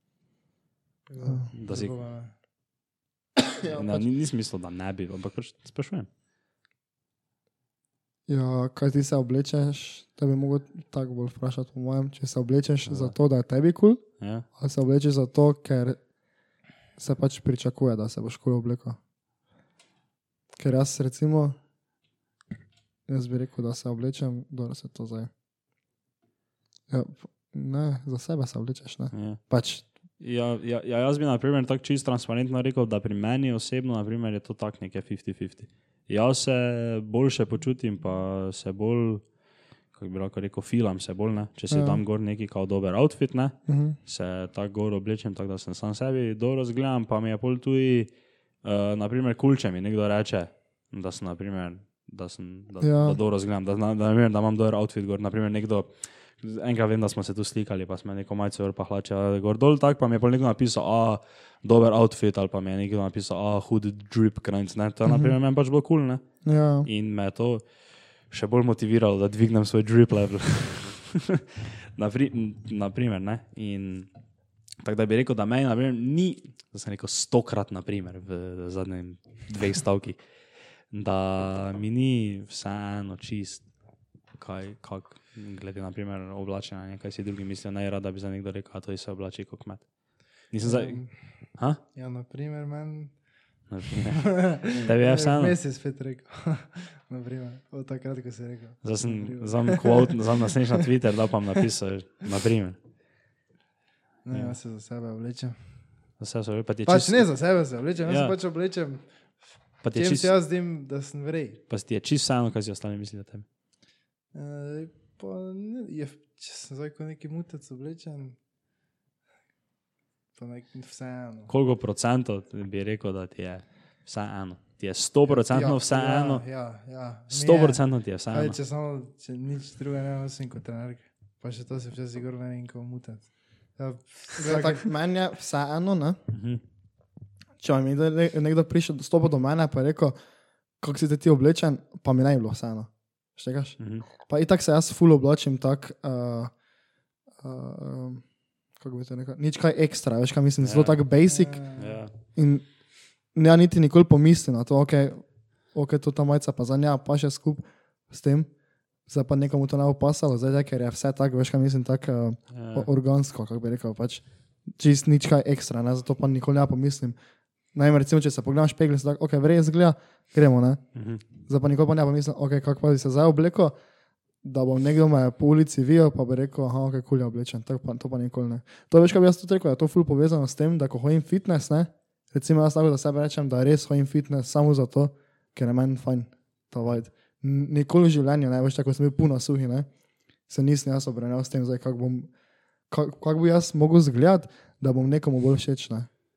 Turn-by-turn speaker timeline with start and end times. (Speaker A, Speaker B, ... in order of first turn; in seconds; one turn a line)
Speaker A: 1.1-2.3
Speaker B: 1.5-1.9
Speaker C: 3.6-4.0
Speaker B: 3.7-6.1
Speaker C: 8.3-16.0
Speaker B: 12.9-13.1
Speaker B: 14.2-14.4
Speaker C: 17.0-19.0
Speaker C: 20.6-21.6
Speaker C: 23.1-25.3
Speaker C: 26.9-29.9
Speaker B: 29.1-29.4
Speaker B: 30.2-39.3
Speaker B: 39.9-48.1
Speaker C: 41.7-42.0
Speaker C: 43.7-44.0
Speaker B: 48.6-66.2
Speaker C: 52.8-53.2
Speaker C: 65.1-65.3
Speaker C: 66.4-66.9
Speaker B: 66.8-67.6
Speaker B: 68.3-74.1
Speaker B: 74.8-80.2
Speaker B: 80.9-83.6
Speaker B: 84.4-89.9
Speaker B: 90.5-91.8
Speaker A: 90.6-93.1
Speaker B: 93.7-95.6
Speaker A: 93.9-100.9
Speaker B: 98.8-102.8
Speaker A: 104.2-105.6
Speaker B: 104.3-104.6
Speaker B: 106.2-107.3
Speaker A: 106.9-109.0
Speaker B: 108.0-108.3
Speaker B: 109.8-110.3
Speaker A: 109.9-111.6
Speaker B: 111.7-113.5
Speaker A: 114.3-118.4
Speaker A: 120.4-121.5
Speaker B: 121.5-126.4
Speaker A: 125.3-134.9
Speaker B: 127.3-128.6
Speaker C: 134.4-136.2
Speaker B: 136.3-136.6
Speaker C: 137.6-140.1
Speaker C: 140.8-146.5
Speaker B: 143.8-144.1
Speaker C: 147.4-148.2
Speaker C: 148.8-151.7
Speaker B: 150.6-151.0
Speaker A: 151.3-152.0
Speaker B: 151.8-152.1
Speaker C: 152.3-152.6
Speaker C: 153.3-158.5
Speaker C: 159.1-164.2
Speaker B: 162.5-162.9
Speaker C: 164.8-167.2
Speaker C: 167.7-170.8
Speaker B: 170.9-171.2
Speaker C: 171.4-173.8
Speaker C: 174.4-189.9
Speaker C: 190.5-192.3
Speaker C: 192.9-196.1